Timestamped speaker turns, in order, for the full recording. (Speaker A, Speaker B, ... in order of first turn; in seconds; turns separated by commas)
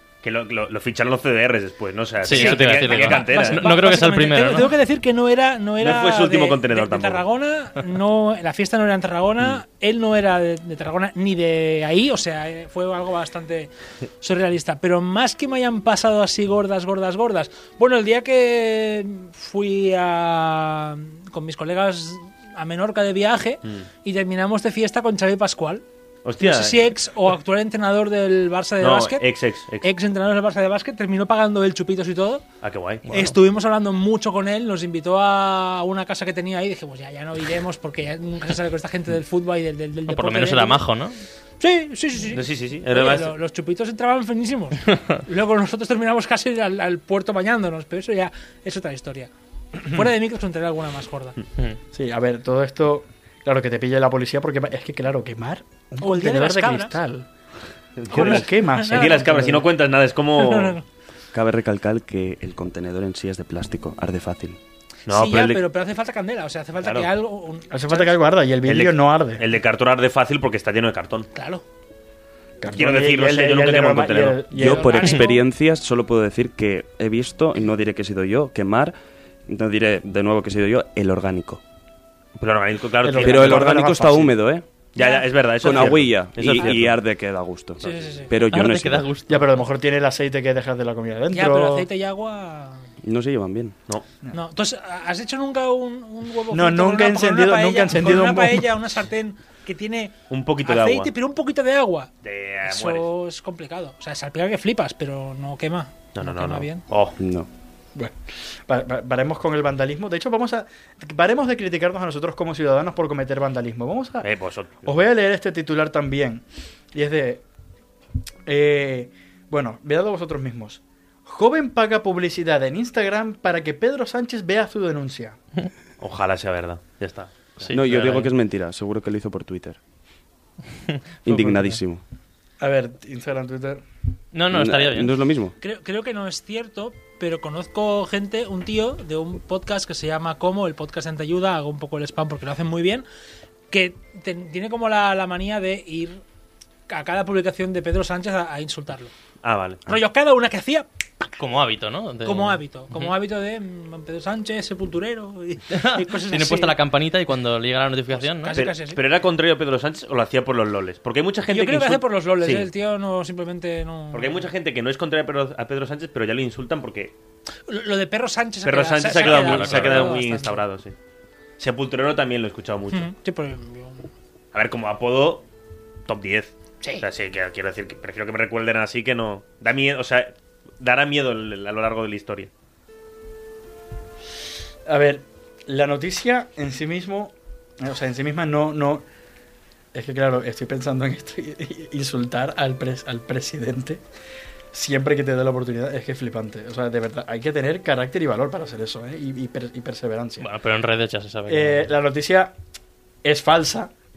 Speaker A: 0.2-3.6, Speaker B: 2.2-4.8, Speaker C: 2.3-25.8, Speaker A: 5.8-7.2, Speaker A: 26.2-26.9, Speaker C: 26.4-29.2, Speaker A: 28.8-29.9, Speaker C: 29.8-32.4, Speaker A: 32.6-33.0, Speaker B: 33.1-33.3, Speaker C: 33.1-40.8, Speaker B: 40.1-41.2, Speaker C: 41.6-49.3, Speaker A: 42.3-43.3, Speaker C: 49.8-51.4, Speaker D: 51.9-57.2, Speaker C: 56.0-57.0, Speaker A: 58.0-60.8, Speaker D: 58.1-59.7, Speaker C: 58.1-59.3, Speaker C: 60.4-60.8, Speaker E: 61.3-64.6, Speaker A: 65.1-65.6, Speaker C: 65.1-68.1, Speaker A: 66.8-67.1, Speaker D: 67.7-69.4, Speaker A: 68.6-71.3, Speaker C: 71.3-71.6, Speaker D: 72.6-75.3, Speaker A: 72.7-74.5, Speaker E: 74.5-78.9, Speaker C: 74.6-75.4, Speaker E: 79.5-81.6, Speaker A: 82.4-83.7, Speaker D: 83.0-84.3, Speaker E: 83.2-84.6, Speaker A: 84.9-87.0, Speaker C: 85.0-85.3, Speaker E: 85.6-89.1, Speaker C: 87.8-88.3, Speaker B: 88.5-89.5, Speaker D: 89.3-91.9, Speaker C: 91.3-92.8, Speaker E: 93.0-93.8, Speaker C: 94.3-102.1, Speaker D: 96.5-98.7, Speaker A: 100.3-101.1, Speaker A: 102.2-103.0, Speaker C: 102.7-106.8, Speaker A: 106.1-107.2, Speaker E: 107.2-107.5, Speaker D: 107.9-114.3, Speaker A: 114.2-115.0, Speaker D: 114.8-117.4, Speaker D: 118.5-125.4, Speaker A: 126.0-127.7, Speaker B: 127.6-128.3, Speaker E: 127.7-129.8, Speaker B: 130.9-131.8, Speaker E: 131.2-132.0, Speaker D: 132.6-133.8, Speaker B: 134.3-135.1, Speaker E: 134.5-135.5, Speaker C: 135.6-143.0, Speaker C: 143.7-146.2, Speaker C: 146.9-149.1, Speaker A: 149.4-149.8, Speaker C: 149.8-150.8, Speaker B: 151.4-153.1, Speaker C: 152.2-156.8, Speaker B: 155.7-158.6, Speaker C: 158.1-159.0, Speaker A: 158.5-162.7, Speaker C: 161.5-164.5, Speaker A: 164.1-167.1, Speaker C: 167.7-170.6, Speaker A: 168.6-170.9, Speaker B: 169.2-170.1, Speaker A: 171.6-173.1, Speaker C: 172.9-174.1, Speaker A: 174.5-175.4, Speaker A: 176.1-182.5, Speaker D: 184.8-189.0, Speaker D: 189.9-194.0, Speaker D: 194.7-200.5, Speaker B: 200.4-201.9, Speaker D: 201.5-202.5, Speaker D: 203.2-203.9